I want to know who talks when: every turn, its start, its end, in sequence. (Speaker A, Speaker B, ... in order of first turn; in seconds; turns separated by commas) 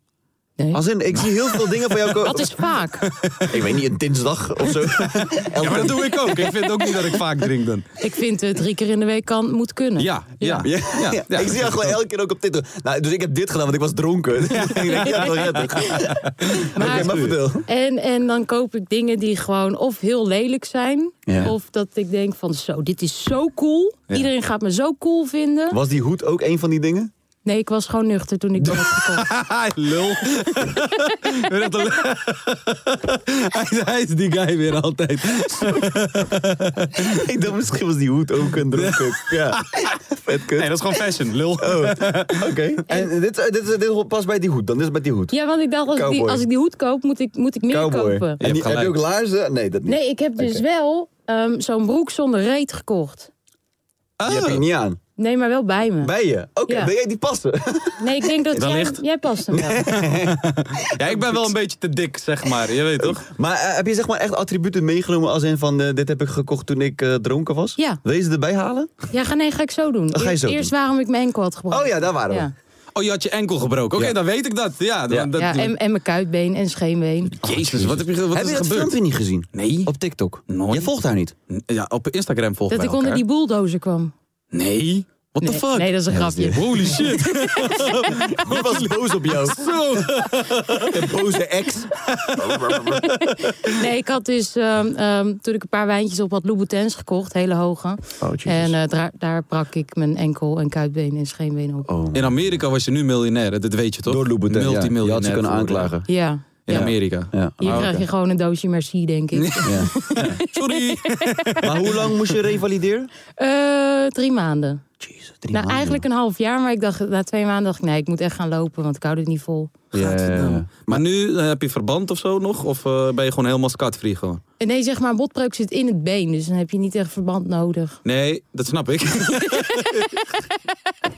Speaker A: 0.7-2.5, Speaker B: 2.2-3.1, Speaker C: 3.0-3.7, Speaker A: 3.5-7.5, Speaker C: 4.7-7.9, Speaker B: 8.0-10.7, Speaker C: 10.0-12.0, Speaker A: 10.6-17.7, Speaker C: 14.5-17.4, Speaker B: 16.8-17.1, Speaker B: 17.6-25.8, Speaker A: 21.3-21.5, Speaker A: 25.7-27.1, Speaker B: 27.4-29.3, Speaker C: 28.7-37.2, Speaker A: 35.6-36.2, Speaker A: 36.9-40.8, Speaker C: 38.7-42.6, Speaker A: 41.6-45.4, Speaker B: 45.3-48.4, Speaker A: 45.9-46.5, Speaker A: 47.7-50.6, Speaker C: 48.4-49.0, Speaker B: 49.9-53.3, Speaker C: 54.2-54.6, Speaker A: 54.3-55.0, Speaker B: 55.2-56.1, Speaker A: 56.0-58.5, Speaker B: 58.0-59.7, Speaker C: 58.6-59.0, Speaker A: 59.5-61.5, Speaker C: 59.6-63.2, Speaker A: 63.0-68.9, Speaker B: 69.1-72.5, Speaker A: 70.1-70.7, Speaker A: 71.7-72.5, Speaker C: 73.0-75.7, Speaker A: 75.1-75.3, Speaker B: 75.4-77.3, Speaker A: 77.4-81.3, Speaker C: 77.4-78.9, Speaker C: 79.5-79.9, Speaker C: 80.5-80.9, Speaker C: 81.5-83.2, Speaker B: 82.7-84.1, Speaker C: 84.5-85.9, Speaker B: 85.4-86.9, Speaker A: 86.1-93.1, Speaker C: 86.5-91.0, Speaker C: 92.1-93.2, Speaker B: 93.0-101.9, Speaker A: 98.2-98.8, Speaker A: 101.9-102.5, Speaker C: 102.1-105.9, Speaker A: 104.1-106.1, Speaker B: 106.1-106.4, Speaker C: 106.7-108.0, Speaker A: 106.7-108.0, Speaker B: 107.6-111.2, Speaker C: 109.4-112.1, Speaker A: 109.6-110.4, Speaker A: 111.6-113.1, Speaker B: 113.4-114.8, Speaker A: 115.0-116.0, Speaker B: 115.5-119.7, Speaker A: 119.9-121.0, Speaker C: 120.0-124.4, Speaker B: 124.6-128.0, Speaker C: 128.1-130.1, Speaker B: 129.6-129.9